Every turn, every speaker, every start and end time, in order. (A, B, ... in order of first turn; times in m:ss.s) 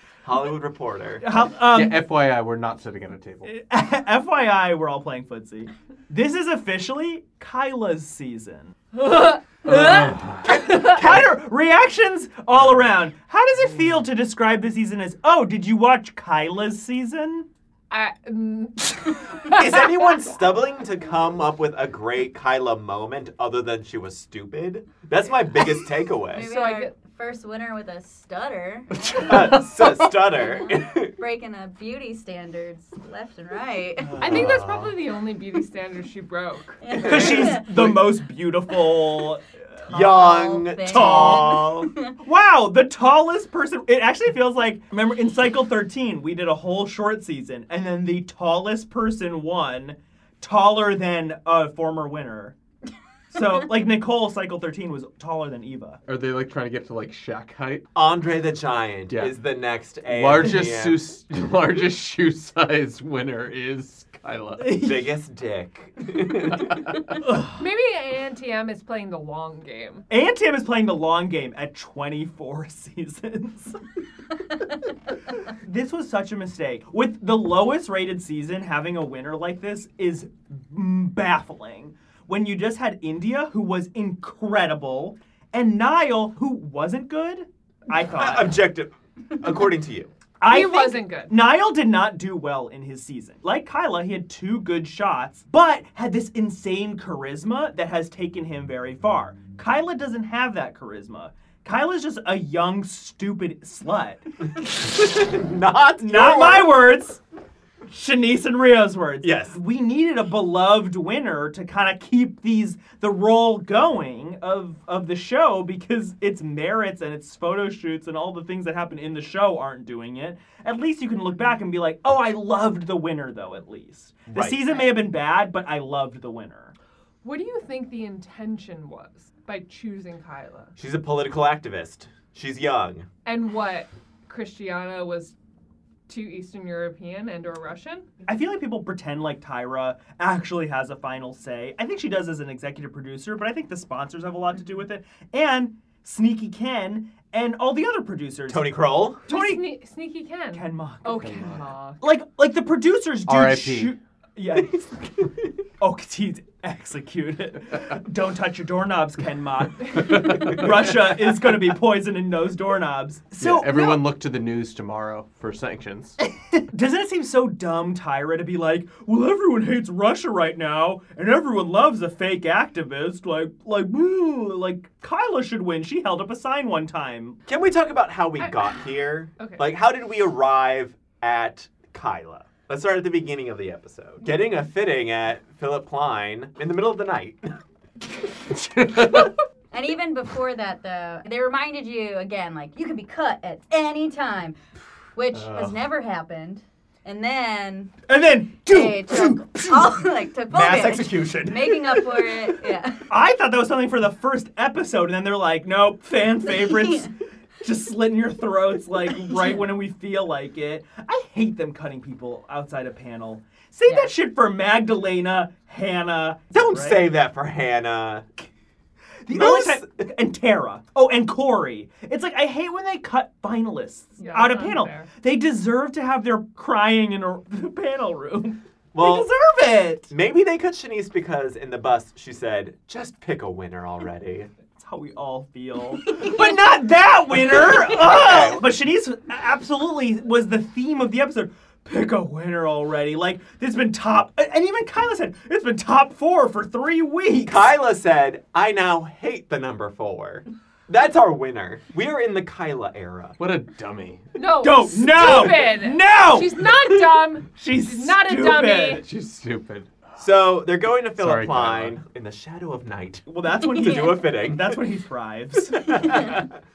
0:00.2-0:01.2 A
0:01.2-0:02.1 B
0:01.7-0:03.5 C
0:03.4-0:08.8 B
0:09.0-0:09.4 D
0:09.6-0:10.4 C
0:09.6-0:17.5 B
0:10.5-0:11.2 A
0:17.9-0:20.2 D
0:19.5-0:26.5 A
0:26.3-0:34.2 E
0:26.4-0:26.9 D
0:29.2-0:31.1 A
0:34.0-0:35.0 A
0:34.2-0:36.8 D
0:36.8-0:37.6 E
0:36.9-0:38.0 A
0:37.0-0:40.2 B
0:39.9-0:41.9 A
0:39.9-0:42.1 E
0:40.7-0:41.7 B
0:42.2-0:52.5 B
0:53.3-0:56.0 B
0:56.1-0:57.8 C
0:57.9-1:01.0 A
1:00.1-1:04.8 C
1:04.6-1:05.0 B
1:04.8-1:06.9 A
1:07.2-1:07.5 B
1:07.6-1:10.0 D
1:10.1-1:13.8 B
1:15.3-1:28.6 B
1:28.0-1:30.1 A
1:30.4-1:44.3 B
1:30.4-1:31.3 D
1:44.8-1:47.0 A
1:46.0-1:47.2 B
1:47.9-2:06.7 B
1:49.2-1:49.6 A
2:04.3-2:04.8 A
2:07.2-2:10.7 D
2:10.8-2:13.1 A
2:13.2-2:15.3 D
2:16.1-2:18.1 D
2:18.2-2:29.7 B
2:28.5-2:29.2 A
2:29.3-2:32.0 D
2:30.5-2:31.4 B
2:31.2-2:31.6 C
2:32.0-2:34.8 B
2:33.2-2:33.9 C
2:34.6-2:35.5 A
2:35.8-2:44.0 B
2:40.4-2:40.6 C
2:43.4-2:46.2 C
2:46.5-2:57.4 B
2:57.5-3:07.6 A
2:58.4-2:58.8 D
2:59.4-2:59.7 D
3:08.5-3:09.3 C
3:09.7-3:14.6 E
3:15.1-3:17.9 E
3:18.1-3:22.3 B
3:18.6-3:23.1 E
3:20.5-3:21.6 A
3:23.1-3:37.1 B
3:36.5-3:38.2 A
3:39.2-3:50.1 B
3:39.3-3:40.0 A
3:44.2-3:45.1 D
3:48.9-3:49.3 A
3:50.1-3:54.5 A
3:54.8-4:07.6 B
3:57.3-3:58.7 A
4:07.4-4:13.4 A
4:13.4-4:14.2 C
4:14.3-4:19.0 D
4:14.6-4:19.0 B
4:19.0-4:20.1 C
4:20.2-4:24.8 A
4:21.2-4:22.0 C
4:23.2-4:26.3 B
4:25.7-4:26.6 A